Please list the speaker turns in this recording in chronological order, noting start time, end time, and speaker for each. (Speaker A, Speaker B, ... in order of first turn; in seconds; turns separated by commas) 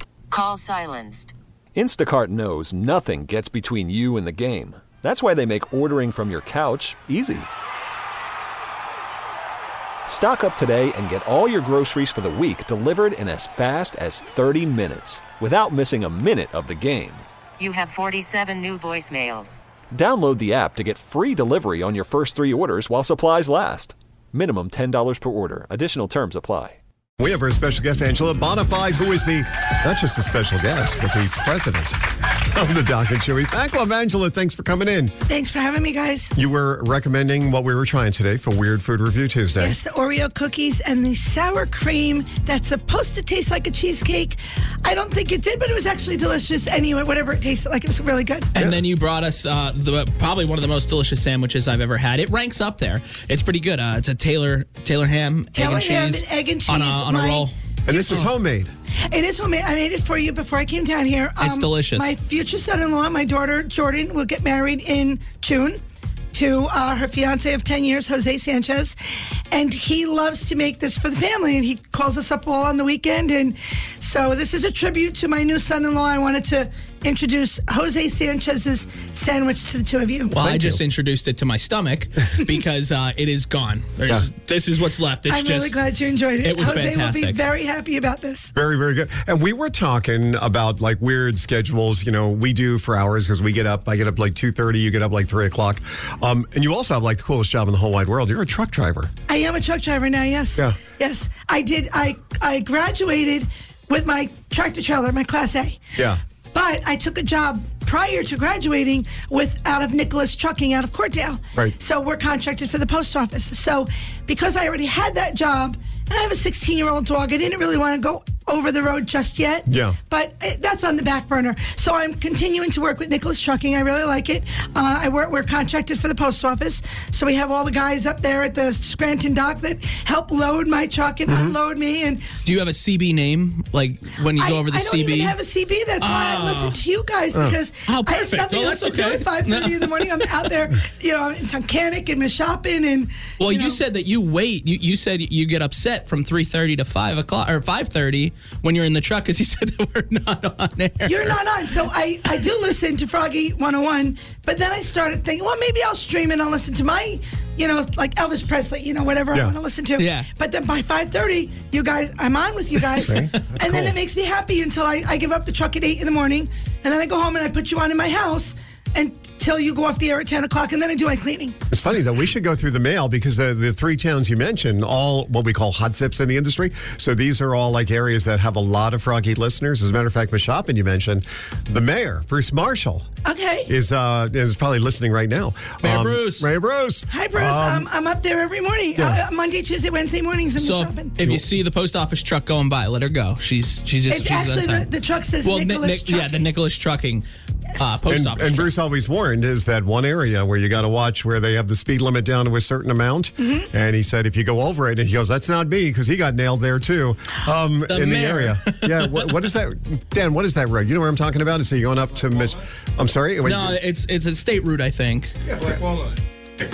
Speaker A: 0.3-1.3, Speaker B: 1.7-7.5, Speaker B: 10.1-17.2, Speaker A: 17.6-19.6, Speaker B: 19.9-26.8, Speaker C: 27.2-32.0, Speaker C: 32.5-35.1, Speaker D: 35.3-36.3, Speaker C: 36.4-39.8, Speaker D: 39.6-48.5, Speaker E: 48.5-58.2, Speaker D: 55.5-57.5, Speaker C: 57.9-58.7, Speaker D: 59.1-65.8, Speaker E: 61.4-62.1, Speaker D: 66.3-69.0, Speaker D: 69.5-80.3, Speaker E: 80.3-85.8, Speaker C: 80.3-80.8, Speaker D: 85.3-88.5, Speaker E: 86.4-87.4, Speaker C: 88.5-99.1, Speaker D: 99.3-105.8, Speaker D: 106.5-132.3, Speaker C: 119.7-120.0, Speaker C: 131.3-131.5, Speaker E: 132.4-135.3, Speaker D: 134.3-143.8, Speaker E: 136.0-136.8, Speaker E: 137.8-140.4, Speaker E: 143.4-151.3, Speaker D: 151.1-171.6, Speaker E: 160.0-160.3, Speaker C: 162.9-163.9, Speaker C: 171.7-183.1, Speaker D: 183.2-183.7, Speaker C: 183.7-187.9, Speaker E: 185.8-186.5, Speaker D: 187.1-191.2, Speaker C: 188.9-189.2, Speaker E: 190.6-194.9, Speaker D: 194.1-196.4, Speaker E: 195.4-197.2, Speaker E: 197.8-198.7, Speaker C: 198.1-213.8, Speaker E: 207.9-209.3, Speaker E: 213.4-215.3